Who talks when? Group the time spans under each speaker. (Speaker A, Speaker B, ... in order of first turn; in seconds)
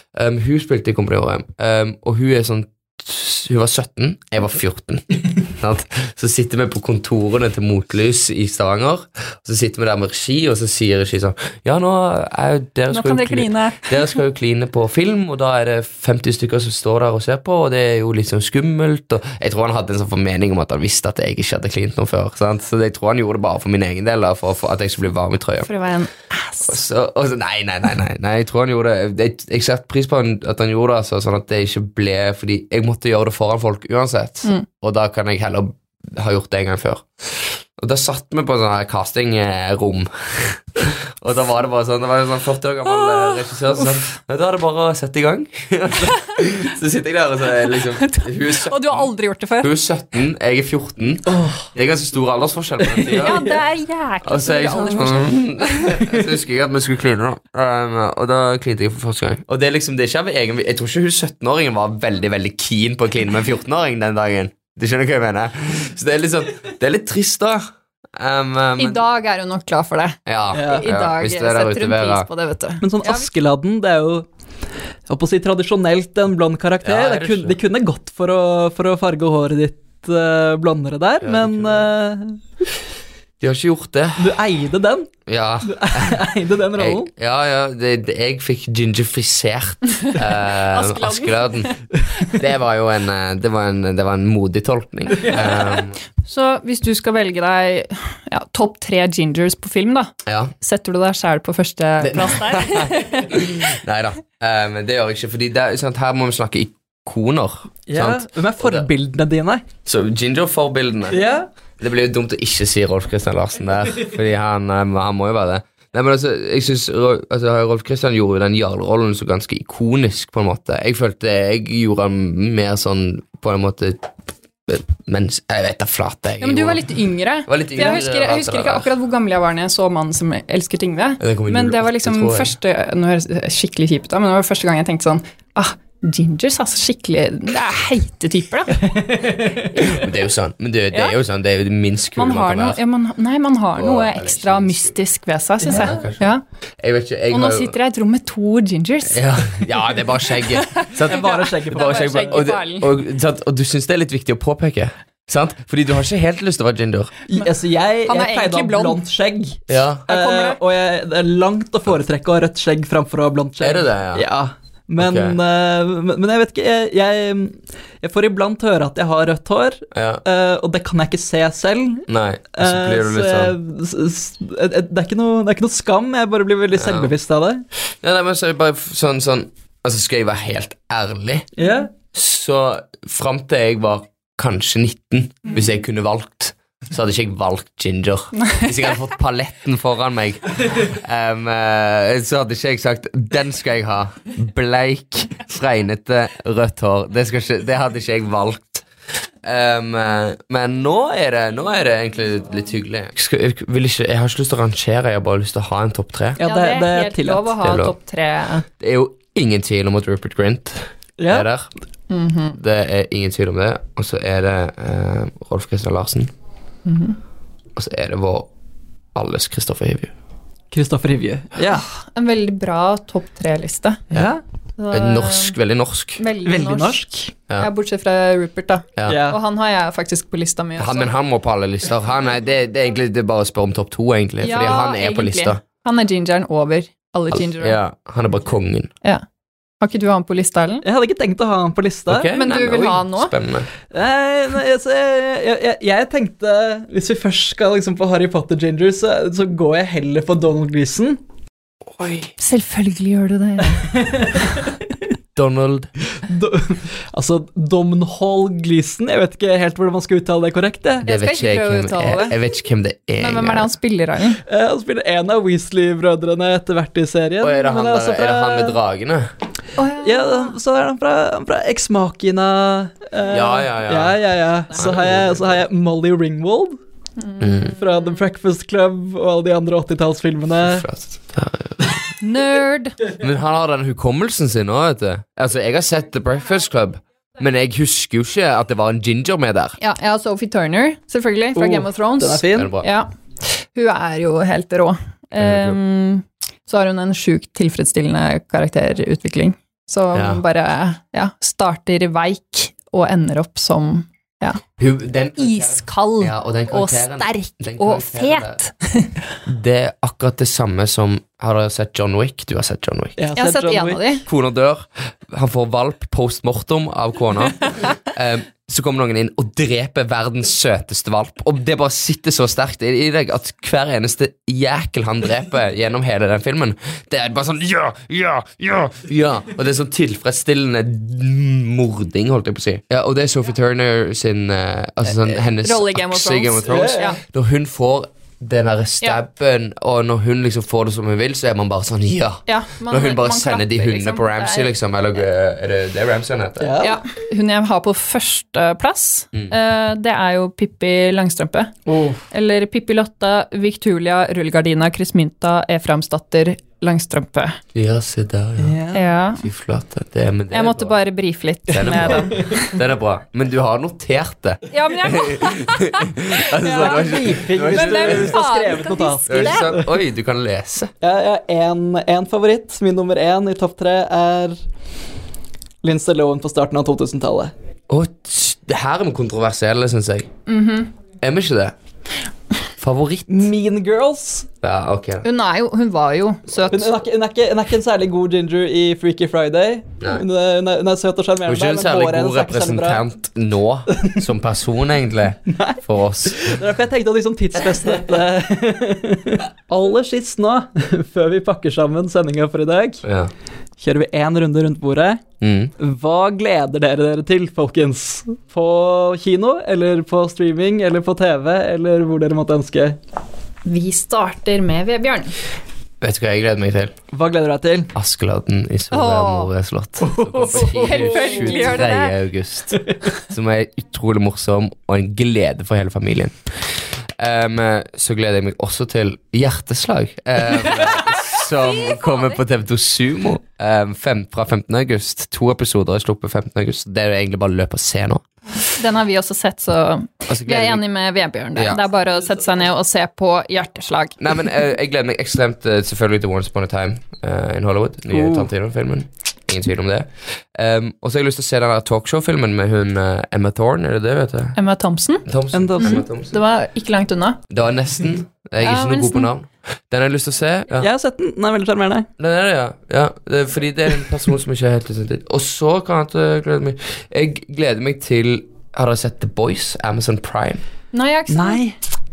Speaker A: 0.1-25.7, 26.6-53.4, 54.2-69.0, 70.2-72.3, 76.8-77.6, 81.2-81.9, 83.4-84.3, 85.3-91.7, 92.3-96.0, 100.2-100.5, 102.0-108.9, 109.8-111.2, 111.8-124.1, 124.7-126.9, 127.5-128.9, 131.2-132.6, 139.7-142.8, 143.8-144.9, 145.7-146.3, 146.8-147.8, 149.1-157.1, 159.7-160.0, 163.6-164.2, 165.0-165.4, 169.9-170.2, 172.1-173.6, 176.7-177.1, 178.0-181.5, 182.1-198.8, 199.4-206.4, 207.6-207.9, 208.8-211.7, 212.5-216.3, 217.8-218.5, 219.1-220.1, 224.9-226.2, 230.8-235.6, 237.3-238.9, 242.1-243.7, 251.9-252.3, 255.3-255.9, 261.0-263.7, 267.4-269.3, 273.3-275.6, 277.4-277.8, 280.6-282.0, 283.1-289.8, 292.5-292.9, 295.4-295.8, 300.1-300.4, 304.8-308.6, 309.4-313.1, 314.3-346.8, 357.7-358.8, 359.4-361.0, 361.7-368.4, 369.3-370.9, 377.9-380.3, 381.2-381.7, 382.8-383.5, 384.6-385.2, 391.4-396.6, 403.0-403.3, 405.4-405.7, 416.0-416.9, 417.9-438.3, 440.3-440.8, 441.5-441.8, 444.2-454.6, 455.2-456.4, 457.5-460.9, 462.2-470.6
Speaker B: 12.9-14.2, 25.6-26.8, 43.0-43.8, 47.8-49.7, 53.1-55.7, 68.8-73.3, 90.2-91.7, 95.2-103.5, 126.4-138.9, 139.7-140.0, 140.9-141.2, 142.2-146.4, 147.3-152.9, 158.1-159.0, 160.1-160.6, 188.4-188.7, 206.4-208.7, 212.1-212.6, 216.8-217.2, 221.9-224.0, 224.8-225.6, 226.2-231.1, 234.4-237.8, 239.8-240.8, 242.3-243.3, 252.4-254.0, 261.0-262.4, 263.2-264.4, 269.8-270.6, 277.2-278.2, 282.2-283.1, 289.8-304.6, 305.4-309.1, 313.4-314.2, 335.1-337.2, 342.5-344.7, 346.8-351.8, 352.3-357.6, 358.9-359.4, 360.5-362.8, 364.7-369.8, 380.5-380.9, 385.2-386.9, 413.6-415.4, 418.9-419.5, 420.5-422.1, 431.7-432.3, 438.7-444.5, 454.6-455.3, 455.8-457.4, 458.6-459.3, 470.9-471.6
Speaker C: 51.3-51.7, 53.0-53.4, 70.5-70.8, 72.8-74.3, 75.1-82.4, 84.2-87.1, 107.9-109.6, 111.1-111.5, 138.8-139.8, 145.6-146.0, 151.1-152.4, 157.3-177.6, 181.6-181.9, 206.4-207.5, 211.2-211.5, 220.7-221.8, 224.1-224.4, 226.4-227.3, 229.1-229.4, 240.8-242.3, 243.9-251.2, 253.7-254.7, 256.1-261.1, 264.4-268.8, 270.0-276.8, 277.7-280.8, 291.6-292.7, 313.2-314.0, 336.7-337.1, 346.6-347.0, 351.9-352.2, 358.6-359.0, 362.1-362.5, 366.7-369.9, 371.0-374.6, 375.8-377.5, 383.3-384.5, 386.7-393.0, 395.5-403.0, 403.8-405.2, 405.8-413.0, 417.1-417.9, 420.0-421.6, 448.1-448.5, 455.5-456.0, 460.8-462.1, 471.3-471.8